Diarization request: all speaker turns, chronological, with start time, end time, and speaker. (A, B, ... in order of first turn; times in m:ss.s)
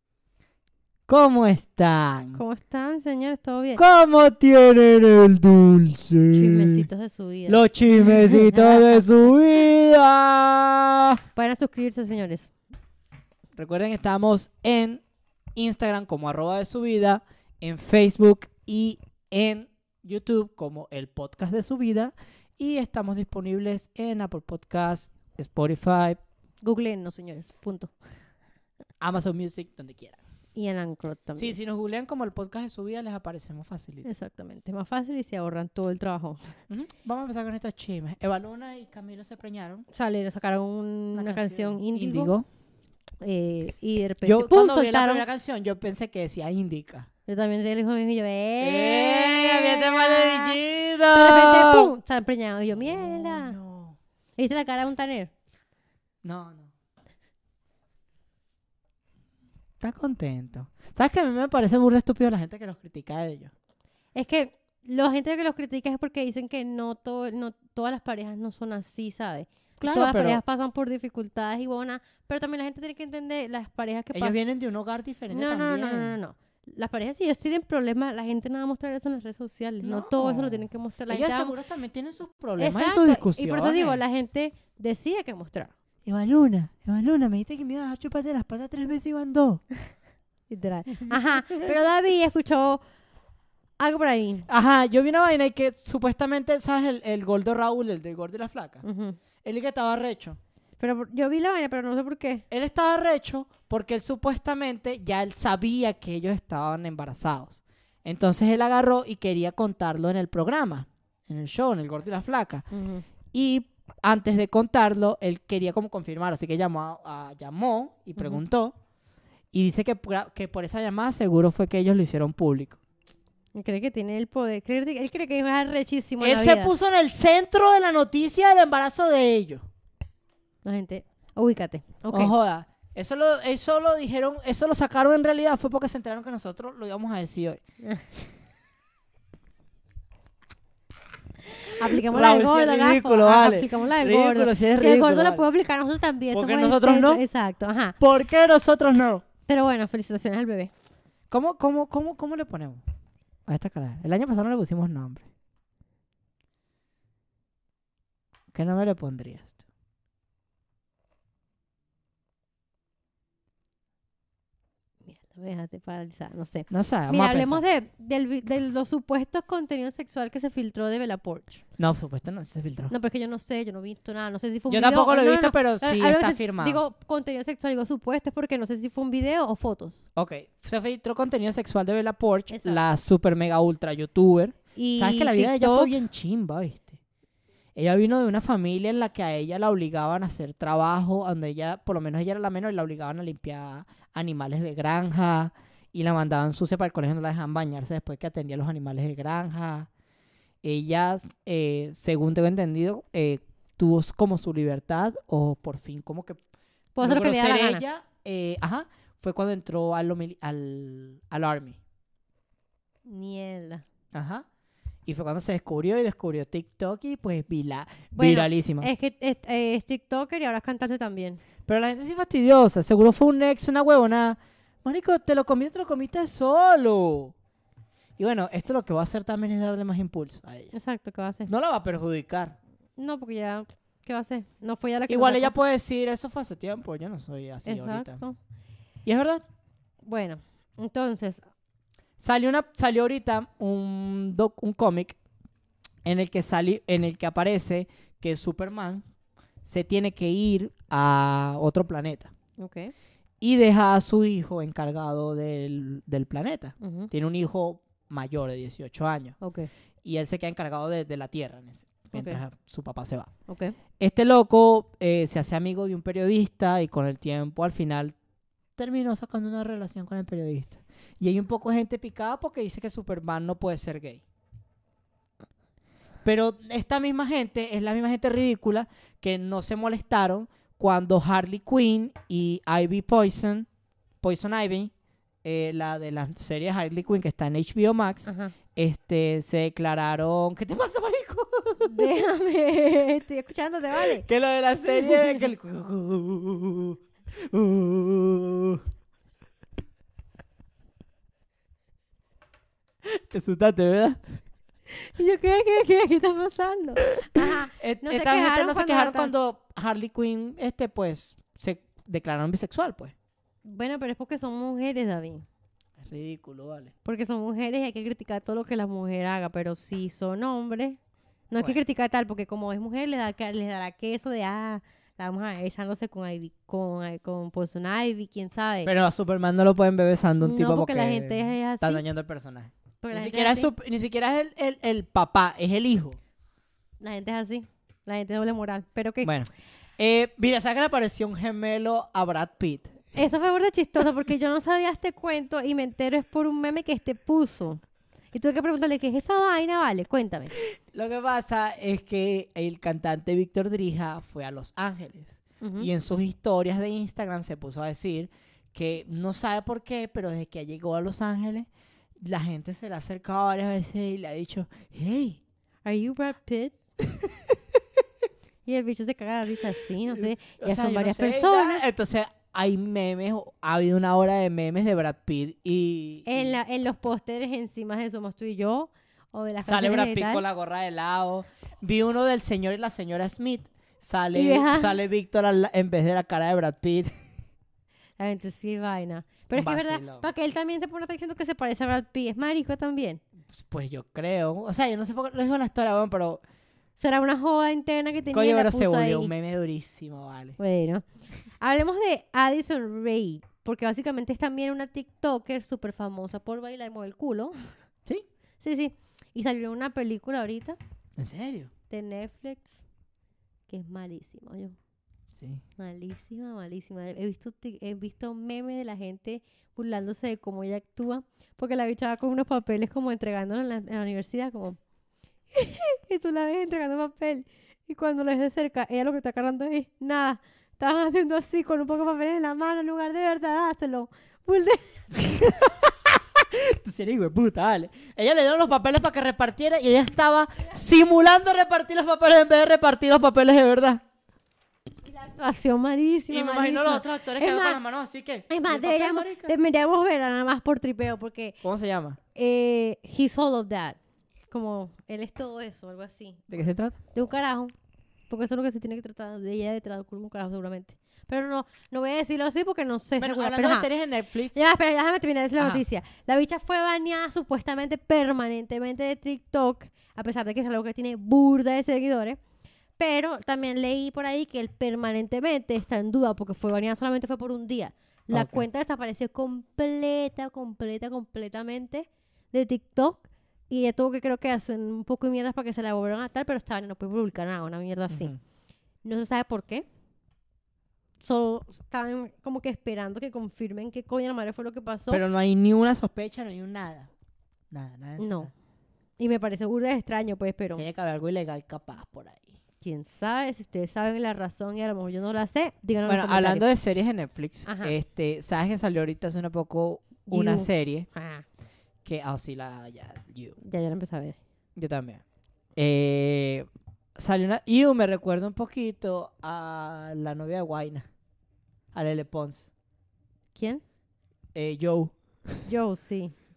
0:01.1-0:02.4 A
0:02.3-0:03.8 B
0:03.8-0:06.9 A
0:06.3-0:09.0 B
0:07.5-0:11.2 A
0:11.4-0:12.5 B
0:13.6-0:15.0 A
0:15.6-0:26.2 A
0:26.6-0:27.9 B
0:29.0-0:30.2 A
0:30.6-0:31.6 B
0:31.4-0:34.1 A
0:34.0-0:36.5 B
0:36.7-0:39.9 A
0:39.9-0:42.3 B
0:41.1-0:42.5 A
0:43.2-0:45.2 B
0:44.2-0:47.1 A
0:47.3-0:50.6 B
0:48.6-0:51.9 A
0:51.1-0:53.6 B
0:52.7-0:54.0 A
0:54.4-0:55.3 B
0:56.2-0:56.7 A
0:59.8-1:03.5 A
1:04.2-1:14.4 B
1:09.8-1:10.4 A
1:14.1-1:16.2 A
1:15.3-1:21.6 B
1:19.8-1:24.0 A
1:22.6-1:25.7 B
1:26.0-1:29.6 A
1:30.5-1:32.8 B
1:31.0-1:31.7 A
1:33.8-1:34.5 B
1:34.5-1:38.8 A
1:38.8-1:39.2 B
1:39.4-1:40.4 A
1:40.8-1:42.4 B
1:42.5-1:52.7 A
1:52.7-1:53.0 B
1:53.3-1:58.8 A
1:58.2-1:58.4 B
1:59.5-2:02.8 A
2:03.6-2:06.7 B
2:06.2-2:09.7 A
2:10.6-2:12.3 B
2:12.1-2:17.6 A
2:21.6-2:28.0 B
2:21.8-2:25.5 A
2:26.3-2:27.2 A
2:28.0-2:29.2 A
2:29.5-2:30.7 B
2:31.3-2:32.8 A
2:33.5-2:35.3 A
2:38.5-2:39.6 A
2:45.1-2:51.6 B
2:46.7-2:47.6 A
2:51.8-2:52.9 A
2:52.9-3:00.0 B
2:54.7-2:56.8 A
3:00.2-3:07.0 A
3:02.5-3:02.8 B
3:04.8-3:05.9 B
3:07.8-3:19.9 A
3:20.6-3:26.4 A
3:27.0-3:31.8 A
3:27.0-3:27.8 B
3:33.1-3:33.8 B
3:34.1-3:34.5 A
3:35.1-3:38.9 A
3:38.1-3:41.4 B
3:41.7-3:47.4 A
3:48.2-3:50.7 A
3:50.7-3:51.5 B
3:51.5-3:52.6 A
3:53.0-3:55.5 B
3:55.1-3:58.2 A
3:57.6-3:58.4 B
3:59.0-3:59.4 A
4:00.0-4:01.4 B
4:02.2-4:05.2 A
4:06.0-4:09.0 A
4:09.6-4:12.3 A
4:12.6-4:12.9 B
4:13.4-4:19.4 A
4:16.8-4:17.1 B
4:19.4-4:19.7 B
4:20.0-4:23.3 A
4:22.1-4:22.4 B
4:23.5-4:23.8 B
4:24.0-4:28.2 A
4:28.8-4:34.2 A
4:36.2-4:43.7 A
4:44.2-4:44.9 A
4:45.4-4:52.1 A
4:48.3-4:48.6 B
4:51.8-4:54.3 B
4:54.0-4:58.8 A
4:54.9-4:55.4 B
5:03.0-5:04.2 A
5:04.9-5:09.3 B
5:07.2-5:13.1 A
5:13.6-5:15.4 B
5:16.0-5:16.9 A
5:17.0-5:21.0 B
5:21.5-5:28.9 B
5:28.8-5:36.2 A
5:30.4-5:32.0 B
5:33.0-5:33.7 B
5:37.0-5:39.3 B
5:39.2-5:43.0 A
5:43.2-5:47.8 B
5:48.3-5:50.5 B
5:50.6-6:05.4 A
5:55.6-5:55.9 B
6:05.8-6:06.8 B
6:07.0-6:07.6 A
6:08.7-6:11.8 B
6:10.0-6:16.5 A
6:16.3-6:20.4 B
6:19.6-6:27.1 A
6:24.3-6:25.0 B
6:28.2-6:33.2 B
6:29.5-6:30.3 A
6:33.5-6:36.4 A
6:37.0-6:39.3 B
6:38.3-6:40.6 A
6:40.6-6:41.0 B
6:41.6-6:47.7 B
6:48.6-6:50.8 B
6:51.2-6:51.7 A
6:51.9-6:52.8 B
6:53.7-6:54.8 B
6:55.4-6:55.6 A
6:55.8-7:04.8 B
7:05.5-7:14.8 B
7:15.1-7:24.0 A
7:25.0-7:27.8 B
7:26.3-7:29.5 A
7:28.5-7:31.6 B
7:31.6-7:32.2 A
7:32.4-7:34.0 B
7:34.5-7:36.5 B
7:36.5-7:37.0 A
7:37.1-7:37.7 B
7:38.3-7:43.9 B
7:43.2-7:44.6 A
7:44.5-7:52.4 B
7:45.6-7:45.8 A
7:53.0-8:08.3 B
7:58.3-7:58.6 A
8:08.1-8:08.4 A
8:09.0-8:09.9 B
8:11.2-8:15.2 B
8:15.1-8:17.1 A
8:17.7-8:18.5 A
8:18.2-8:18.5 B
8:19.2-8:20.8 B
8:20.8-8:22.6 A
8:22.8-8:26.7 B
8:26.1-8:31.1 A
8:27.7-8:28.0 B
8:30.3-8:31.4 B
8:32.0-8:33.6 A
8:33.6-8:34.4 B
8:34.8-8:35.2 A
8:35.8-8:41.1 A
8:41.9-8:42.7 A
8:43.6-8:43.8 B
8:44.5-8:45.6 A
8:45.7-8:46.4 B